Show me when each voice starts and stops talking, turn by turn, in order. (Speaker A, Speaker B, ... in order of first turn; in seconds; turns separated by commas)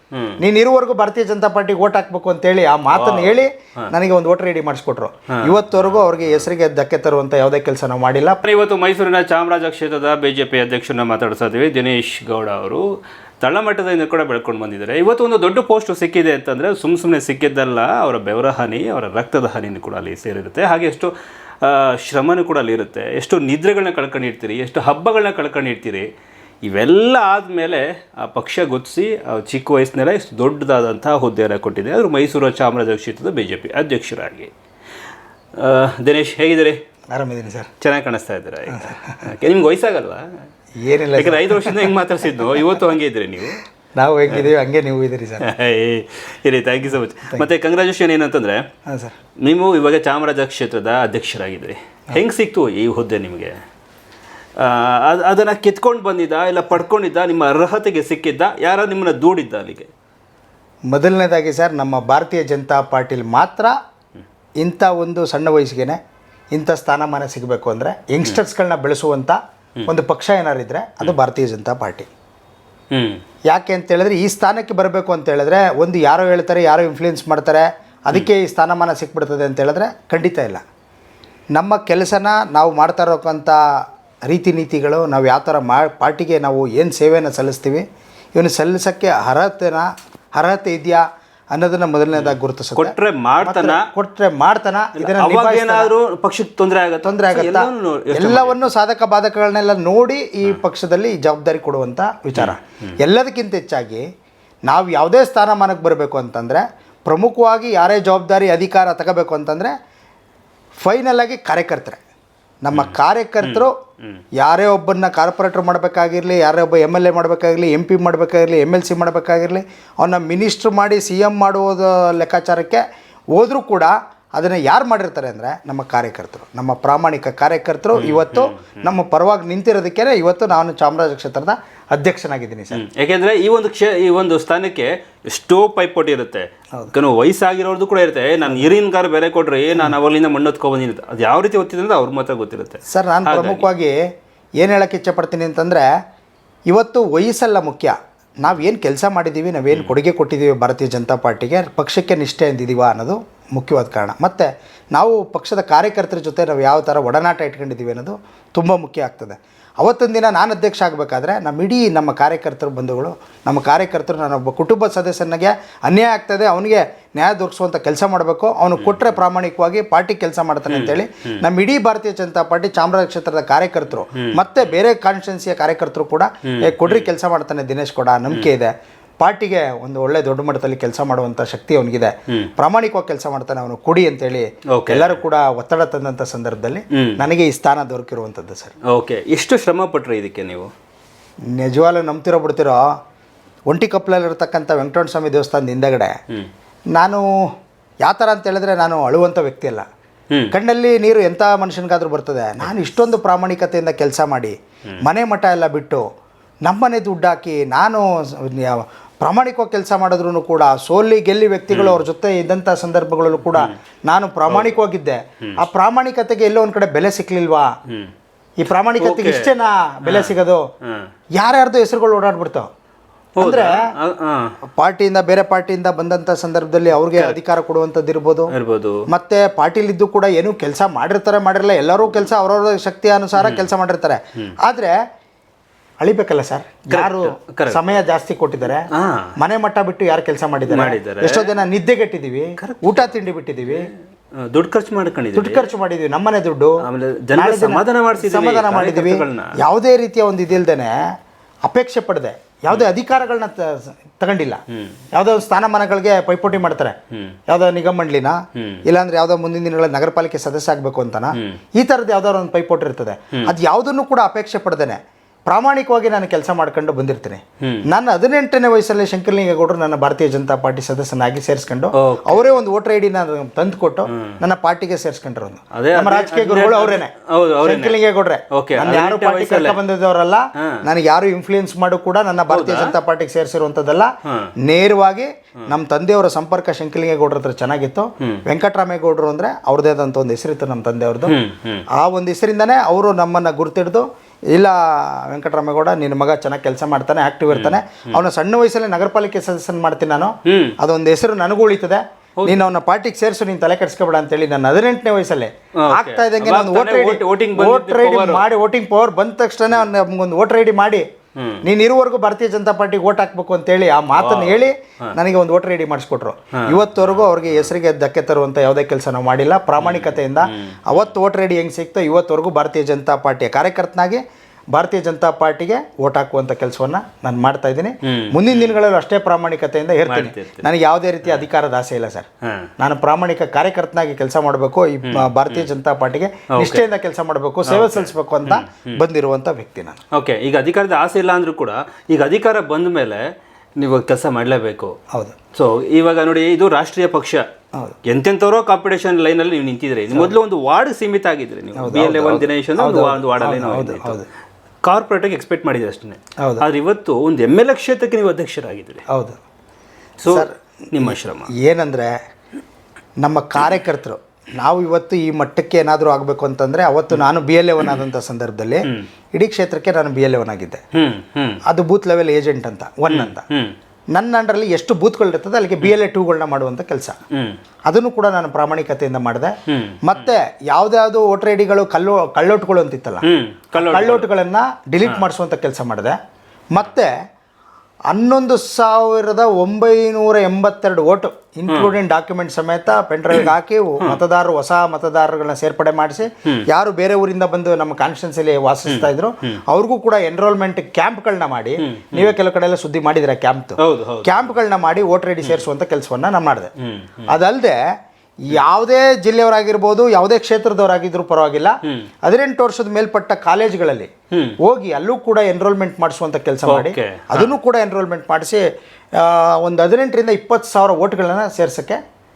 Speaker A: 0.1-0.4, Speaker B: 0.4-8.4, Speaker A: 2.9-3.9, Speaker A: 5.3-6.5, Speaker A: 8.4-12.8, Speaker A: 13.4-26.1, Speaker A: 26.6-34.5, Speaker A: 35.5-36.8, Speaker B: 37.1-37.7, Speaker A: 37.8-40.2, Speaker B: 40.8-41.9, Speaker A: 41.1-43.6, Speaker B: 43.9-45.5, Speaker A: 45.4-48.6, Speaker B: 48.9-49.1, Speaker A: 49.4-53.6, Speaker A: 54.6-59.9, Speaker B: 60.9-63.7, Speaker B: 64.6-66.0, Speaker B: 66.5-72.1, Speaker A: 72.9-73.2, Speaker B: 73.5-80.6, Speaker B: 81.5-83.6, Speaker B: 84.3-95.9, Speaker A: 92.2-93.9, Speaker A: 95.0-98.7, Speaker B: 97.0-104.0, Speaker B: 104.7-109.7, Speaker B: 110.8-112.0, Speaker B: 112.6-113.7, Speaker A: 112.7-114.2, Speaker B: 114.4-122.8, Speaker B: 123.3-132.8, Speaker A: 127.9-128.9, Speaker A: 132.7-143.6, Speaker B: 142.9-143.9, Speaker B: 144.6-145.8, Speaker B: 146.7-188.7, Speaker A: 168.8-169.1, Speaker A: 170.7-171.4, Speaker A: 176.5-177.1, Speaker A: 184.7-185.2, Speaker A: 188.9-190.7, Speaker B: 191.5-192.8, Speaker B: 193.7-196.1, Speaker B: 196.9-197.3, Speaker B: 198.0-199.8, Speaker B: 200.5-206.0, Speaker B: 206.6-217.7, Speaker A: 211.7-212.0, Speaker A: 213.4-213.7, Speaker A: 214.5-214.8, Speaker B: 218.6-220.7, Speaker A: 219.0-219.5, Speaker A: 220.1-221.1, Speaker B: 221.4-222.7, Speaker A: 223.4-224.5, Speaker B: 223.4-223.9, Speaker B: 224.7-228.5, Speaker A: 227.1-227.4, Speaker A: 228.5-229.0, Speaker B: 229.1-234.9, Speaker A: 233.4-233.7, Speaker B: 236.0-243.9, Speaker A: 236.9-237.9, Speaker A: 238.9-239.3, Speaker A: 240.7-241.5, Speaker A: 242.6-245.7, Speaker B: 245.3-246.8, Speaker A: 246.8-249.6, Speaker B: 247.3-250.9, Speaker B: 251.7-254.6, Speaker A: 254.7-255.0, Speaker B: 255.1-256.9, Speaker B: 257.5-277.1, Speaker A: 258.6-258.8, Speaker A: 272.0-272.4, Speaker A: 275.7-278.0, Speaker B: 277.6-284.1, Speaker A: 278.5-279.8, Speaker A: 282.5-282.9, Speaker A: 284.2-284.5, Speaker B: 284.6-291.4, Speaker A: 291.2-291.9, Speaker B: 291.9-311.0, Speaker A: 297.5-298.2, Speaker A: 300.5-300.8, Speaker A: 302.4-302.6, Speaker A: 305.8-308.4, Speaker A: 311.4-311.6, Speaker B: 311.6-324.2, Speaker A: 314.1-315.1, Speaker A: 316.6-317.7, Speaker A: 319.8-321.1, Speaker B: 324.7-332.3, Speaker A: 328.1-328.8, Speaker A: 330.1-330.6, Speaker B: 332.8-340.0, Speaker A: 335.1-335.7, Speaker A: 336.5-336.8, Speaker A: 337.6-339.0, Speaker A: 340.1-343.2, Speaker A: 343.8-344.9, Speaker A: 345.5-347.4, Speaker A: 348.1-354.2, Speaker B: 351.8-354.2, Speaker A: 354.8-359.0, Speaker B: 359.1-359.4, Speaker A: 360.2-361.5, Speaker B: 360.3-362.1, Speaker B: 363.2-370.8, Speaker A: 370.9-371.6, Speaker B: 371.7-373.4, Speaker A: 373.1-373.7, Speaker B: 374.1-377.2, Speaker B: 377.9-379.5, Speaker A: 379.7-380.2, Speaker B: 380.0-386.2, Speaker A: 383.2-384.3, Speaker B: 386.7-387.1, Speaker B: 388.1-406.7, Speaker A: 398.9-399.6, Speaker A: 401.8-402.3, Speaker A: 403.8-404.6, Speaker A: 406.8-407.3, Speaker B: 407.3-407.8, Speaker B: 408.4-414.1, Speaker B: 414.6-418.6, Speaker A: 416.6-417.5, Speaker B: 419.2-422.0